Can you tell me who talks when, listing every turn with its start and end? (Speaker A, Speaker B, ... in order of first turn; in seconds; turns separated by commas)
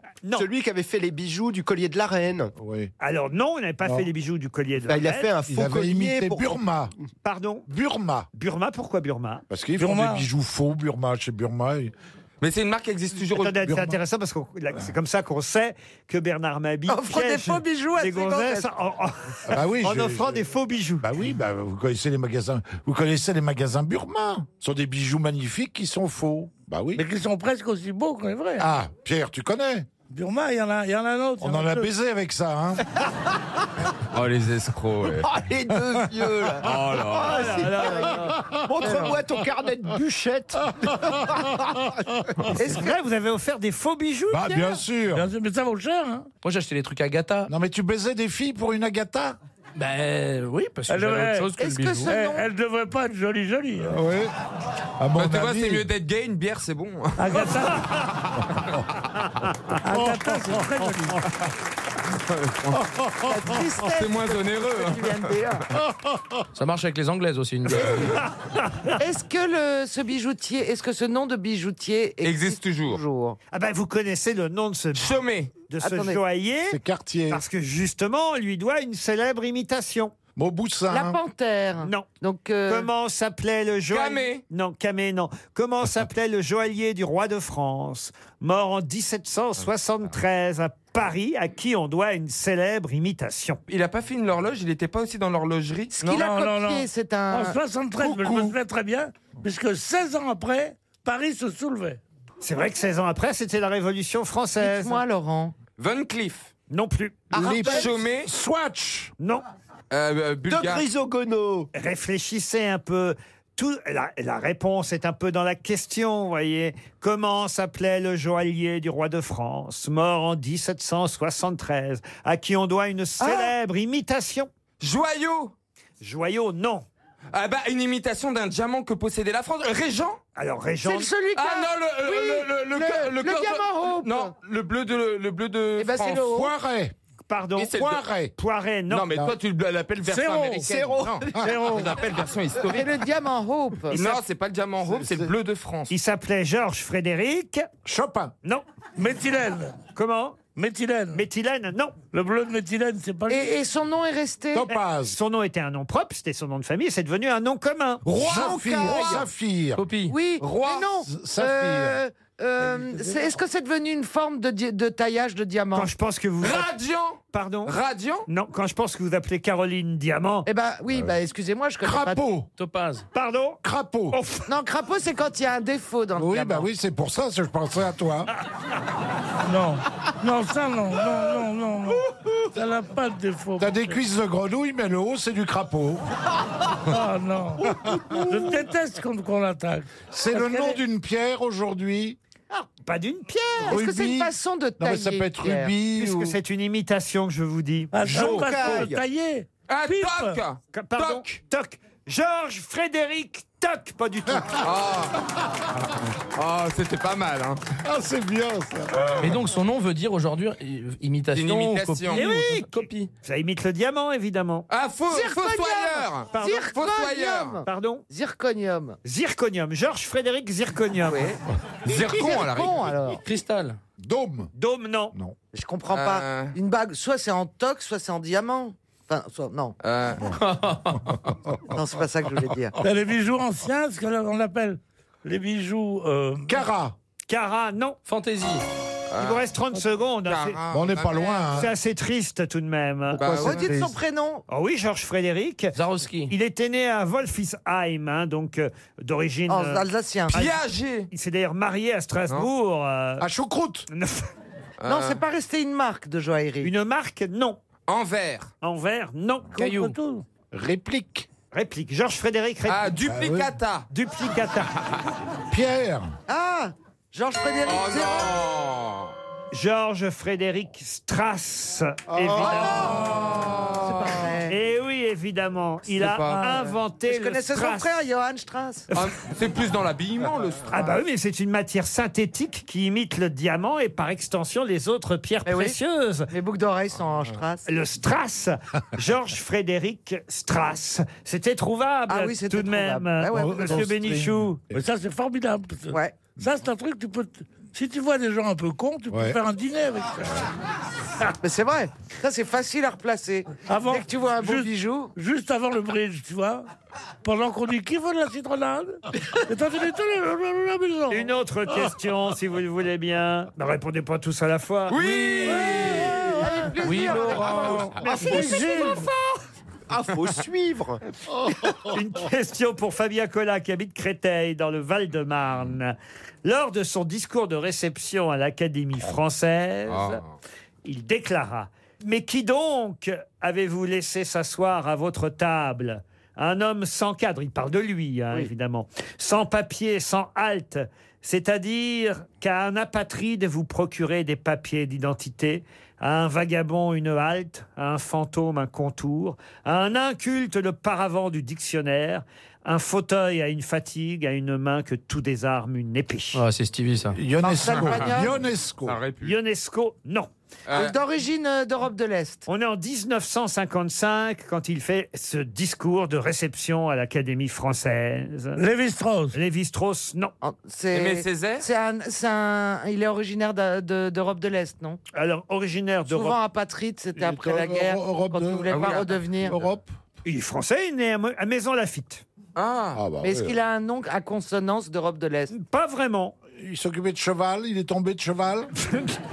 Speaker A: 0.3-2.5, Speaker B: 2.6-2.9, Speaker C: 3.0-5.3, Speaker A: 4.9-6.6, Speaker B: 5.5-6.9, Speaker C: 7.2-7.7, Speaker B: 7.7-8.3, Speaker C: 8.3-9.4, Speaker B: 9.5-11.9, Speaker D: 9.8-10.2, Speaker E: 12.4-13.6, Speaker C: 13.3-21.1, Speaker B: 13.7-14.0, Speaker F: 16.9-18.7, Speaker B: 19.5-20.4, Speaker B: 21.0-27.0, Speaker D: 27.0-28.7, Speaker B: 28.6-29.9, Speaker D: 30.1-31.9, Speaker B: 31.4-32.9, Speaker E: 34.1-35.4, Speaker A: 35.2-41.9, Speaker E: 36.6-37.8, Speaker C: 37.2-38.4, Speaker C: 42.6-44.8, Speaker B: 44.3-45.3, Speaker D: 45.1-46.3, Speaker G: 46.4-47.5, Speaker B: 47.5-49.4, Speaker G: 49.8-52.1, Speaker D: 50.9-51.5, Speaker F: 51.6-52.5, Speaker D: 52.1-54.0, Speaker B: 53.9-54.3, Speaker B: 55.0-55.9, Speaker E: 55.2-57.5, Speaker D: 57.2-57.9, Speaker C: 57.4-58.1, Speaker D: 59.8-61.2, Speaker B: 59.9-60.6, Speaker E: 62.3-62.9, Speaker B: 62.8-63.5, Speaker F: 63.2-65.7, Speaker E: 63.8-65.4, Speaker G: 66.5-68.2, Speaker C: 68.4-69.0, Speaker F: 69.0-73.4, Speaker E: 72.2-73.0, Speaker C: 73.5-75.2, Speaker E: 75.0-75.5, Speaker C: 75.7-76.8, Speaker F: 75.8-76.2, Speaker B: 76.7-77.4, Speaker C: 77.3-80.1, Speaker B: 80.4-81.2, Speaker F: 80.9-82.9, Speaker C: 81.8-82.1, Speaker C: 82.7-93.6, Speaker E: 83.9-84.4, Speaker E: 93.7-96.2, Speaker F: 95.9-97.6, Speaker D: 96.1-102.0, Speaker B: 98.0-98.6, Speaker C: 102.4-105.0, Speaker F: 104.6-105.5, Speaker E: 105.8-106.5, Speaker C: 106.7-107.3, Speaker B: 107.3-109.1, Speaker F: 107.4-107.8, Speaker A: 107.4-107.6, Speaker E: 107.5-108.3, Speaker E: 109.9-110.9, Speaker A: 110.5-111.7, Speaker C: 111.7-124.5, Speaker F: 123.2-123.5, Speaker E: 124.8-125.5, Speaker C: 126.0-126.9, Speaker E: 127.3-130.2, Speaker C: 130.4-131.1, Speaker F: 130.8-134.3, Speaker E: 131.3-136.5, Speaker F: 135.8-136.5, Speaker B: 136.3-136.9, Speaker C: 137.3-137.7, Speaker E: 137.6-138.0, Speaker B: 137.7-138.3, Speaker C: 138.4-139.1, Speaker E: 138.9-142.9, Speaker B: 139.1-139.4, Speaker D: 140.0-140.7, Speaker A: 140.7-141.7, Speaker D: 141.4-142.0, Speaker F: 142.7-144.0, Speaker E: 143.9-145.9, Speaker B: 144.8-145.3, Speaker C: 145.9-147.7, Speaker B: 147.8-148.3, Speaker D: 149.0-149.8, Speaker C: 149.9-150.4, Speaker D: 150.6-151.2, Speaker C: 151.1-152.0, Speaker D: 152.1-153.6, Speaker F: 153.3-154.7, Speaker B: 154.5-155.2, Speaker C: 154.7-158.1, Speaker A: 158.2-159.2, Speaker B: 158.2-159.8, Speaker F: 158.3-159.2, Speaker G: 159.8-160.2, Speaker F: 160.1-165.9, Speaker E: 160.4-160.9, Speaker B: 161.1-162.0, Speaker D: 162.6-163.3, Speaker C: 165.7-166.7, Speaker E: 166.4-168.3, Speaker C: 167.3-167.8, Speaker C: 168.3-170.5, Speaker F: 170.5-172.2, Speaker B: 170.9-171.2, Speaker B: 171.8-172.5, Speaker G: 172.6-173.1, Speaker C: 173.1-174.5, Speaker B: 173.6-174.2, Speaker F: 174.5-176.7, Speaker B: 176.2-178.3, Speaker D: 179.4-183.9, Speaker B: 183.6-186.0, Speaker D: 186.9-190.8, Speaker B: 187.6-188.4, Speaker B: 190.1-192.2, Speaker C: 192.5-193.8, Speaker F: 193.7-195.7, Speaker B: 193.7-196.4, Speaker C: 196.0-197.9, Speaker D: 197.9-200.4, Speaker A: 198.0-199.1, Speaker E: 199.7-201.2, Speaker C: 200.7-204.6, Speaker E: 204.6-205.2, Speaker E: 206.3-207.6, Speaker B: 207.8-209.2, Speaker G: 209.2-213.1, Speaker E: 211.3-212.2, Speaker C: 212.1-214.7, Speaker E: 214.7-217.6, Speaker F: 215.1-219.0, Speaker C: 216.3-216.7, Speaker C: 217.7-218.0, Speaker C: 219.0-221.3, Speaker F: 221.0-223.2, Speaker E: 221.8-222.9, Speaker G: 223.2-223.8, Speaker B: 224.0-224.5, Speaker C: 224.6-225.2, Speaker F: 225.5-229.8, Speaker E: 225.9-226.6, Speaker E: 229.8-230.4, Speaker G: 230.3-231.2, Speaker F: 231.7-232.8, Speaker D: 232.8-236.6, Speaker B: 236.5-236.9, Speaker C: 237.3-238.0, Speaker G: 238.1-238.6, Speaker E: 239.1-239.5, Speaker C: 239.2-240.6, Speaker E: 240.3-241.7, Speaker B: 240.7-241.7, Speaker C: 241.6-243.4, Speaker E: 243.2-243.8, Speaker B: 243.2-243.9, Speaker F: 243.3-244.4, Speaker C: 244.5-245.7, Speaker G: 245.7-246.3, Speaker C: 246.3-250.6, Speaker F: 249.5-250.4, Speaker E: 250.3-251.1, Speaker C: 251.1-253.2, Speaker B: 253.2-253.9, Speaker C: 253.9-254.3, Speaker E: 254.8-255.2, Speaker F: 254.8-256.7, Speaker C: 256.6-257.6, Speaker E: 257.9-258.5, Speaker C: 258.6-259.5, Speaker G: 259.6-260.0, Speaker D: 259.6-260.2, Speaker B: 260.5-261.3, Speaker C: 261.5-262.9, Speaker E: 262.7-263.9, Speaker B: 263.1-263.5, Speaker C: 263.9-264.8, Speaker B: 265.5-266.1, Speaker F: 266.3-268.3, Speaker E: 267.6-269.1, Speaker C: 269.5-273.0, Speaker B: 272.1-273.2, Speaker E: 272.5-274.3, Speaker F: 273.8-274.6, Speaker C: 274.5-278.0, Speaker E: 275.9-276.6, Speaker F: 277.1-278.9, Speaker E: 278.9-280.9, Speaker C: 280.7-286.3, Speaker F: 285.4-285.8, Speaker F: 286.3-287.7, Speaker C: 287.7-294.6, Speaker F: 292.1-293.9, Speaker B: 293.3-294.8, Speaker D: 294.7-300.4, Speaker F: 295.9-296.2, Speaker B: 299.1-299.4, Speaker F: 301.4-305.1, Speaker D: 303.7-306.6, Speaker D: 307.2-311.3, Speaker C: 311.1-315.9, Speaker E: 314.9-316.4, Speaker F: 315.4-319.1, Speaker D: 315.6-319.1, Speaker G: 316.8-317.9, Speaker C: 318.0-319.0, Speaker A: 319.9-321.0, Speaker C: 321.8-330.2, Speaker E: 329.9-330.3, Speaker C: 330.9-356.4, Speaker G: 356.3-357.2, Speaker B: 357.1-359.0, Speaker F: 357.4-358.4, Speaker E: 357.7-358.3, Speaker E: 358.9-359.3, Speaker C: 359.2-360.3, Speaker E: 360.7-361.0, Speaker F: 360.7-362.4, Speaker C: 362.5-368.6, Speaker D: 368.6-369.4, Speaker C: 369.3-370.3, Speaker F: 370.4-375.0, Speaker E: 370.9-371.7, Speaker C: 375.1-376.4, Speaker F: 376.1-379.6, Speaker B: 377.2-379.9, Speaker E: 378.7-379.2, Speaker C: 380.2-382.2, Speaker E: 382.6-383.0, Speaker B: 382.9-383.6, Speaker F: 383.2-385.5, Speaker C: 385.5-386.4, Speaker B: 386.6-388.7, Speaker C: 388.8-389.1